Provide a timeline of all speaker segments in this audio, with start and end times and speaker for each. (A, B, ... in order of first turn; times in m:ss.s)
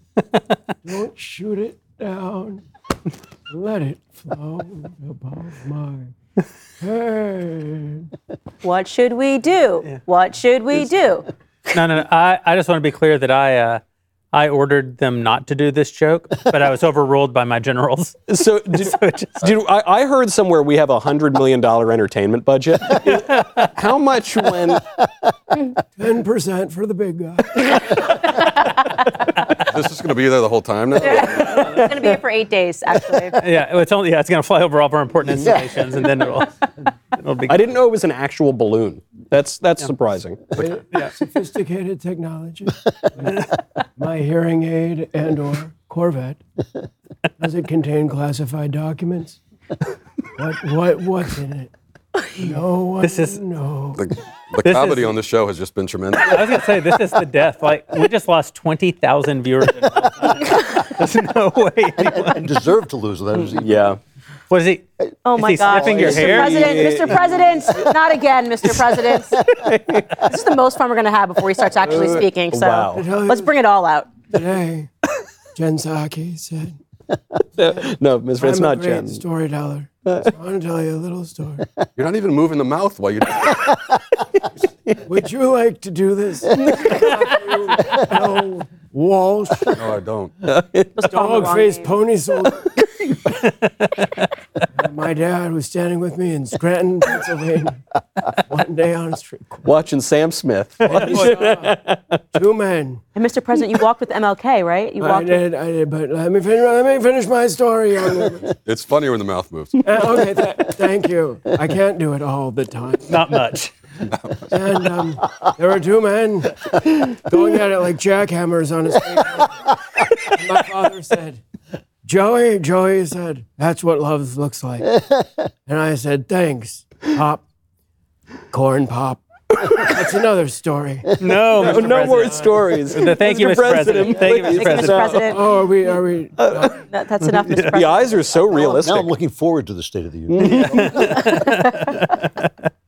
0:00.8-0:02.6 A
0:03.5-0:06.1 A
0:06.8-0:08.1 A
0:08.6-0:11.3 B
0:11.7-0:13.8 C
0:14.3-0:19.5 C
0:18.3-0:24.8 D
0:23.3-0:23.7 C
0:26.0-0:28.2 A
0:29.5-0:31.9 E
0:31.0-0:33.4 B
0:33.4-0:37.6 C
0:35.4-0:35.8 F
0:37.5-0:40.5 D
0:40.6-0:46.4 A
0:47.4-0:49.4 A
0:50.4-0:51.7 A
0:52.3-0:54.1 A
0:53.0-0:53.4 C
0:54.0-0:56.7 E
0:54.6-0:55.1 C
0:56.2-1:02.5 C
1:02.0-1:03.9 F
1:03.5-1:04.0 D
1:04.5-1:06.7 C
1:05.2-1:09.4 B
1:05.8-1:07.4 D
1:05.8-1:07.9 F
1:09.4-1:10.4 D
1:10.3-1:14.2 B
1:11.8-1:13.1 D
1:12.9-1:13.5 A
1:14.3-1:14.9 A
1:15.6-1:16.8 A
1:17.6-1:19.2 D
1:18.4-1:21.7 A
1:20.0-1:20.3 D
1:22.0-1:23.9 E
1:25.0-1:30.0 A
1:29.7-1:30.3 E
1:30.4-1:31.0 D
1:31.0-1:31.9 B
1:31.1-1:32.7 A
1:34.8-1:37.8 A
1:38.5-1:39.7 A
1:39.6-1:42.2 D
1:40.8-1:41.8 A
1:42.3-1:43.0 A
1:43.2-1:45.4 B
1:45.0-1:48.6 A
1:48.6-1:50.0 E
1:49.8-1:53.4 A
1:53.1-1:53.7 C
1:54.1-1:54.4 E
1:54.5-1:59.7 A
2:00.3-2:01.4 A
2:02.0-2:05.0 A
2:05.7-2:07.4 A
2:08.5-2:12.6 A
2:11.2-2:15.2 C
2:11.6-2:15.4 D
2:14.0-2:15.5 B
2:15.3-2:16.8 A
2:16.4-2:19.1 D
2:16.9-2:18.8 B
2:18.8-2:21.4 F
2:20.3-2:21.2 D
2:20.4-2:22.5 C